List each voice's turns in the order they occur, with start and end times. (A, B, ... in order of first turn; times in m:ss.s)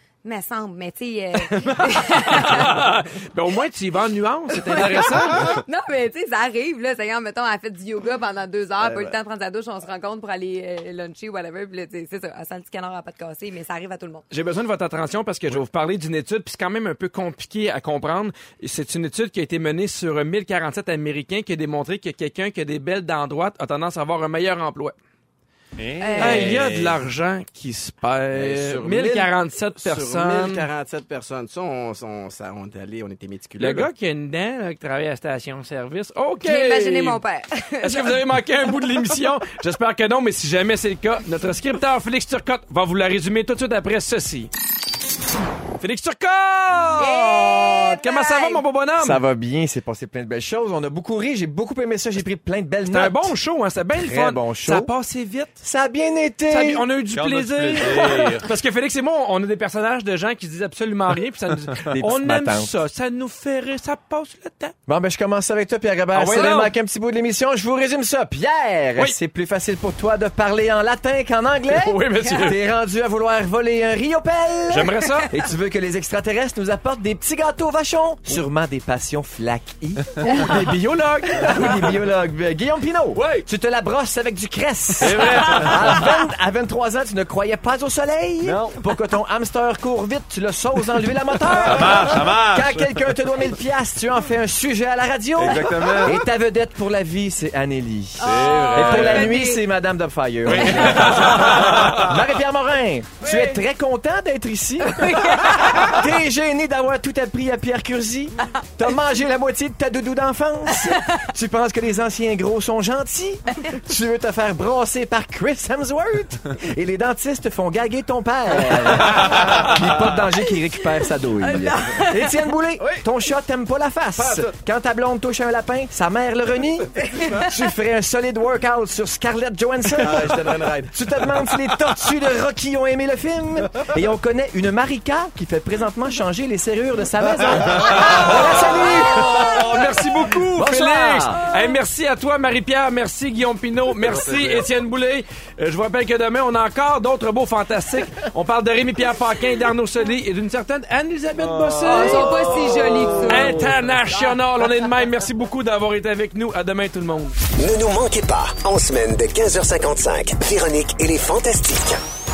0:00.2-0:02.8 A
0:01.4-0:05.6 B
0:04.7-0:14.2 A
0:08.8-0:09.2 C
0:14.3-0:25.0 B
0:25.8-0:27.0 D
0:26.0-0:26.6 A
0:26.2-0:30.7 B
0:28.3-0:33.9 C
0:33.6-0:37.2 B
0:36.4-0:38.2 A
0:37.8-0:44.5 B
0:45.8-0:49.2 B
0:47.0-0:48.6 A
0:49.0-0:53.3 E
0:52.9-0:55.6 B
0:54.0-0:54.9 E
0:55.6-0:56.9 E
0:56.5-1:04.8 B
0:57.1-0:58.5 D
1:01.9-1:02.7 E
1:04.9-1:20.5 E
1:06.1-1:06.7 B
1:11.6-1:12.6 B
1:14.7-1:15.3 B
1:20.3-1:21.8 B
1:21.4-2:19.5 E
1:23.1-1:23.5 D
1:25.0-1:26.1 D
1:28.4-1:28.8 D
1:31.6-1:33.2 D
1:35.4-1:36.2 D
1:38.2-1:39.6 A
1:38.2-1:39.4 D
1:40.4-1:42.1 D
1:40.6-1:41.4 A
1:44.9-1:45.9 A
1:59.0-1:59.7 D
2:01.0-2:02.3 A
2:02.8-2:03.0 C
2:07.2-2:07.5 A
2:09.9-2:11.0 C
2:17.6-2:20.0 D
2:18.2-2:37.4 B
2:20.3-2:21.4 E
2:24.0-2:24.7 D
2:31.4-2:33.9 D
2:31.9-2:33.6 A
2:37.6-2:42.0 F